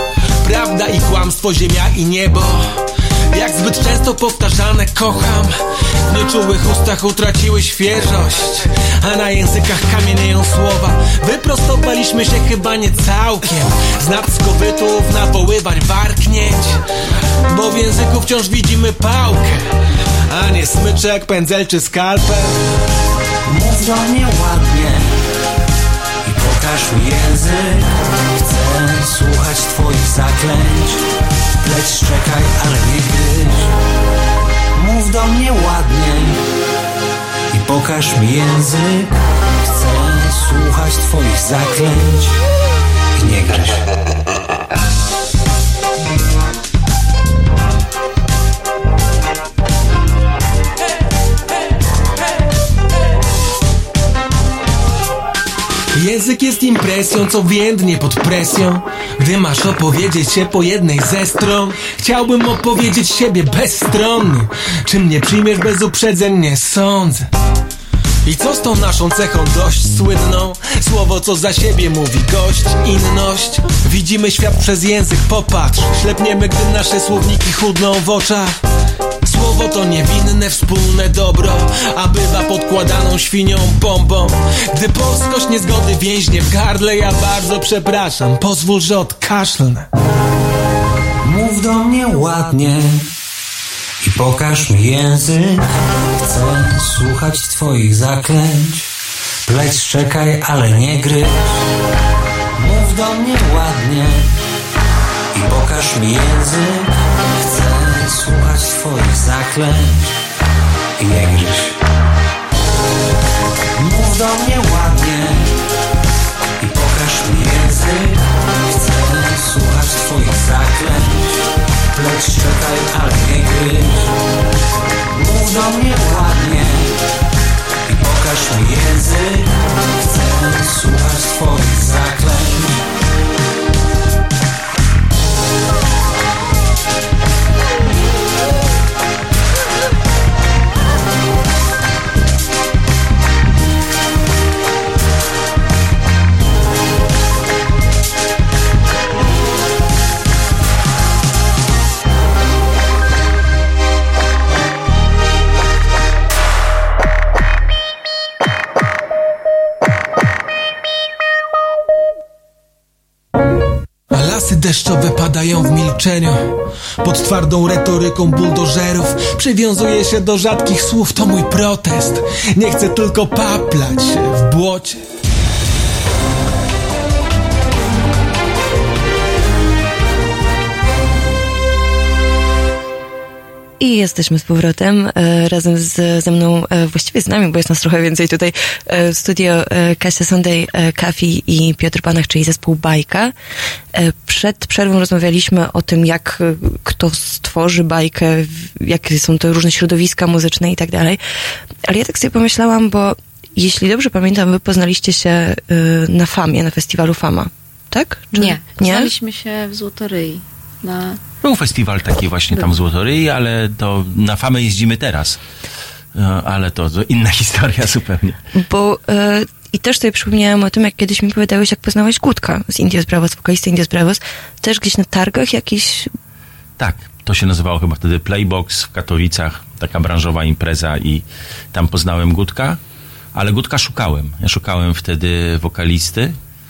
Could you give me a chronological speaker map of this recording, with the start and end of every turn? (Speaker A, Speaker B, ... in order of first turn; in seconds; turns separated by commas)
Speaker A: 0.4-2.8, Speaker A: 3.3-5.5, Speaker A: 6.1-16.8, Speaker A: 17.5-19.6, Speaker A: 20.3-22.5, Speaker B: 23.4-25.1, Speaker B: 26.2-31.0, Speaker B: 31.6-33.7, Speaker B: 34.8-36.4, Speaker B: 37.5-42.4, Speaker B: 43.1-43.8, Speaker A: 55.9-67.3, Speaker A: 68.2-78.5, Speaker A: 79.2-89.9, Speaker B: 91.2-93.1, Speaker B: 94.0-98.9, Speaker B: 99.5-101.6, Speaker B: 102.6-104.3, Speaker B: 105.3-110.2, Speaker B: 111.0-111.7, Speaker B: 113.8-115.5, Speaker B: 116.6-121.4, Speaker B: 121.9-124.1, Speaker B: 125.1-127.0, Speaker B: 127.9-132.8, Speaker A: 164.1-175.0, Speaker C: 183.8-193.3, Speaker C: 193.9-201.2, Speaker C: 201.8-209.1, Speaker D: 208.3-211.2, Speaker E: 211.4-215.4, Speaker E: 216.1-218.4, Speaker C: 218.5-226.1, Speaker E: 226.8-232.8, Speaker E: 233.3-236.4